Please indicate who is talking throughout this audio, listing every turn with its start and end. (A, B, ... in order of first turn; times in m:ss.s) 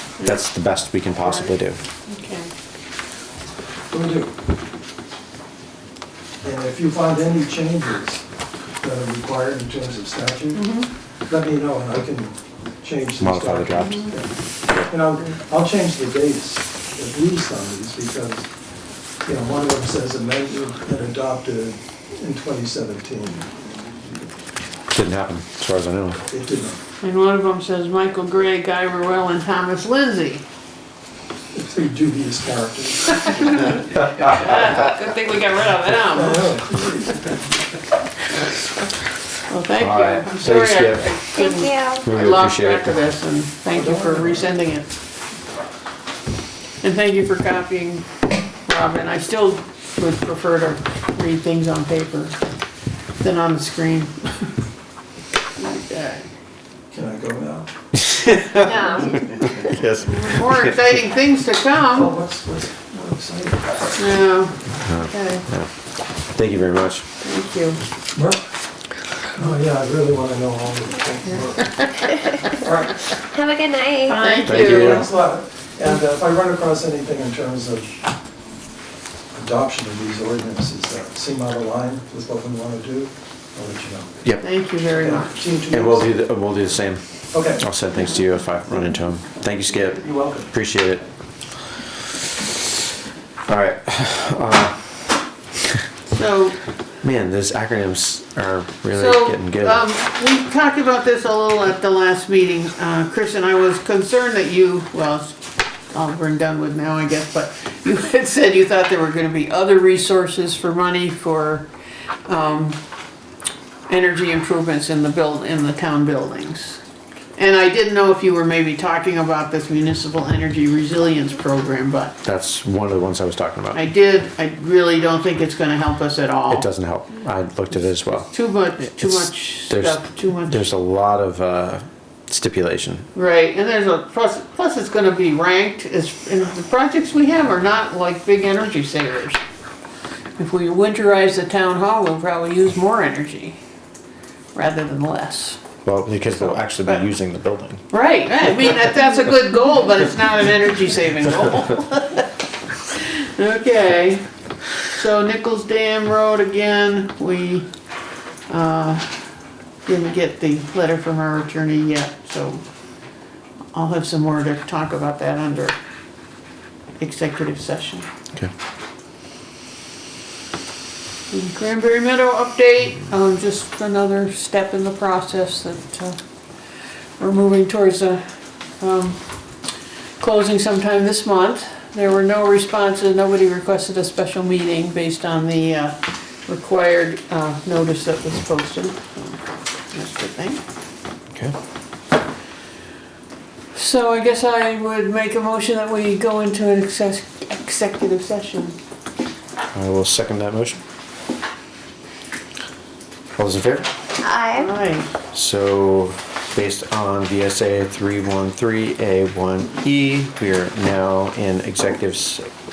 0:00.2-0:01.8 A
0:01.2-0:01.5 B
0:02.1-0:02.5 B
0:03.9-0:04.3 C
0:06.4-0:08.2 C
0:08.8-0:10.7 C
0:10.5-0:10.9 B
0:11.3-0:18.4 C
0:13.2-0:14.1 A
0:13.8-0:14.1 B
0:19.2-0:23.5 C
0:24.9-0:26.2 A
0:26.3-0:26.8 C
0:27.0-0:30.4 B
0:31.5-0:33.7 C
0:33.3-0:37.0 B
0:36.1-0:37.0 C
0:39.5-0:44.9 B
0:39.8-0:41.1 A
0:41.3-0:42.0 D
0:42.0-0:43.0 A
0:43.7-0:44.5 C
0:46.8-0:48.0 B
0:48.6-0:52.3 B
0:53.2-0:54.4 B
0:55.6-0:56.3 B
0:56.9-0:57.7 C
0:58.0-1:00.7 A
0:58.6-0:59.2 D
0:58.6-0:59.1 B
1:00.0-1:02.1 B
1:01.9-1:03.9 C
1:04.0-1:05.4 B
1:04.8-1:05.7 A
1:06.3-1:07.0 A
1:07.2-1:07.8 B
1:08.1-1:08.4 C
1:09.3-1:11.8 C
1:12.6-1:13.0 C
1:13.3-1:14.8 D
1:14.0-1:15.0 B
1:14.4-1:15.1 A
1:14.7-1:18.0 C
1:19.3-1:24.3 C
1:24.4-1:25.4 B
1:25.0-1:26.1 C
1:25.7-1:31.0 A
1:27.3-1:27.6 C
1:29.9-1:30.5 C
1:33.5-1:34.9 A
1:36.1-1:36.6 B
1:37.0-1:39.8 A
1:38.9-1:45.4 B
1:45.9-1:51.7 B
1:52.2-1:52.8 B
1:53.9-1:56.8 B
1:57.4-2:02.1 B
2:02.2-2:03.8 A
2:03.7-2:06.7 B
2:06.5-2:08.3 A
2:08.0-2:10.6 B
2:08.9-2:13.1 A
2:13.1-2:19.4 B
2:20.4-2:23.6 B
2:24.5-2:25.6 B
2:25.8-2:27.8 A
2:26.4-2:27.0 B
2:27.9-2:32.3 B
2:32.8-2:34.2 B
2:34.9-2:37.7 B
2:38.5-2:39.2 B
2:39.8-2:42.6 B
2:43.7-2:45.7 B
2:47.0-2:48.1 B
2:51.3-2:56.2 B
2:57.2-2:58.2 B
2:58.8-2:59.2 B
3:00.2-3:10.6 B
3:13.7-3:18.8 B
3:19.7-3:20.8 A
3:23.4-3:23.9 A
3:24.2-3:24.7 D
3:24.5-3:25.1 B
3:25.3-3:32.5 A